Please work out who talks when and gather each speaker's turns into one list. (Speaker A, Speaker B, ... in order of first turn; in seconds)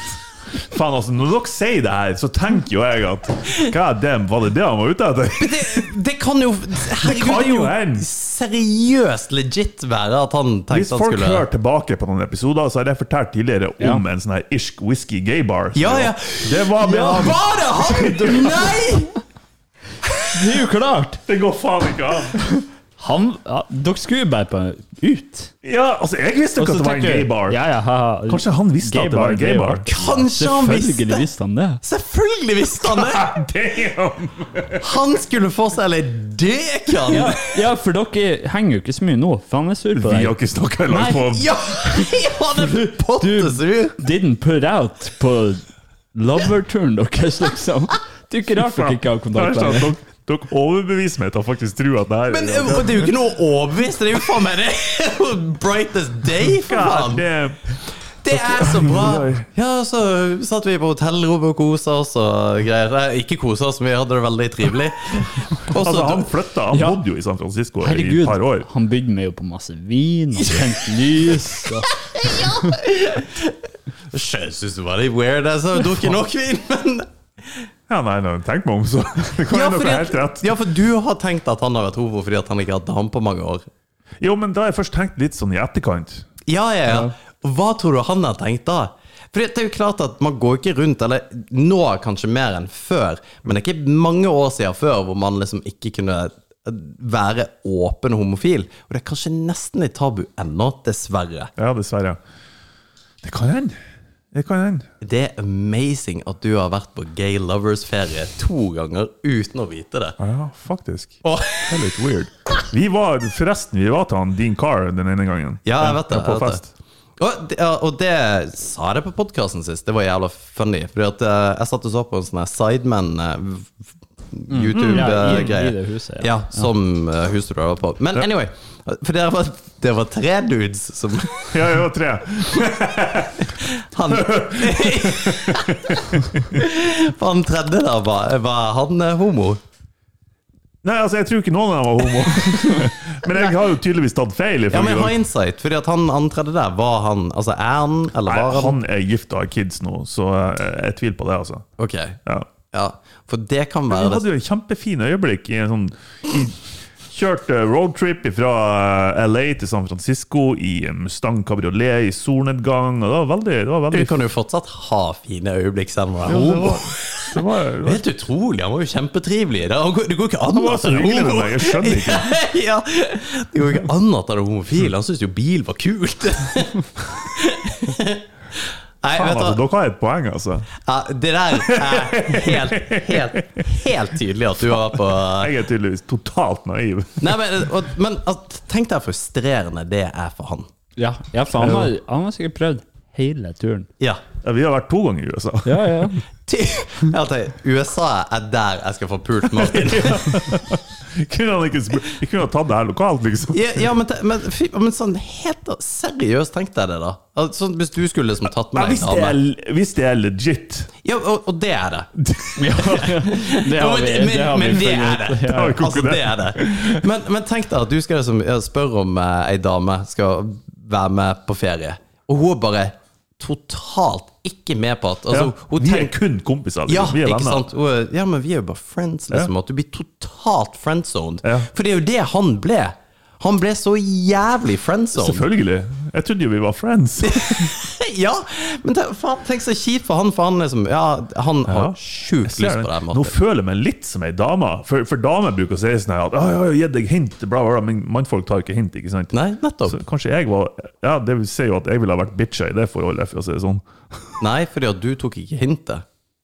Speaker A: 0.5-5.9, 6.9-8.1, 10.7-18.8, 21.3-22.4, 25.6-27.6, 28.3-29.9, 32.8-34.8, 39.9-41.5, 48.6-53.2, 56.5-57.7, 58.3-59.5, 65.7-68.7, 77.9-80.5, 84.2-86.3, 101.6-102.2, 103.2-103.8, 104.3-104.8, 110.2-116.7, 124.8-125.4, 131.5-133.5, 134.1-136.6, 140.8-145.1, 148.2-151.7, 153.9-164.2, 166.2-168.0, 170.5-172.3, 179.1-180.7, 181.6-183.7, 184.7-187.5, 191.6-191.9, 194.4-196.1, 199.5-203.9, 208.7-210.9, 212.2-213.1, 215.4-217.0, 225.3-227.6, 231.4-231.7, 235.2-237.7, 241.7-249.3, 249.9-254.4
Speaker B: 5.4-11.4, 15.7-19.2, 29.9-31.2, 31.8-33.3, 34.8-37.4, 41.2-44.0, 52.3-57.2, 58.2-66.3, 70.6-70.9, 71.8-73.6, 74.1-77.7, 79.5-83.7, 86.5-101.5, 105.0-110.2, 111.2-111.9, 115.6-116.6, 117.2-131.7, 133.4-139.6, 144.7-148.8, 151.8-152.2, 152.7-154.2, 163.9-179.6, 180.8-185.5, 187.2-190.7, 196.5-200.6, 203.5-209.3, 211.0-226.2, 226.8-235.4, 237.2-243.3, 249.3-250.0, 254.4-256.0
Speaker C: 16.9-17.3, 18.1-18.8, 20.3-21.2, 22.4-25.5, 26.6-31.8, 37.1-40.3, 40.9-45.6, 46.1-49.9, 66.7-67.0, 67.8-72.6, 124.5-126.6, 191.0-193.9, 195.6-196.2, 212.8-215.8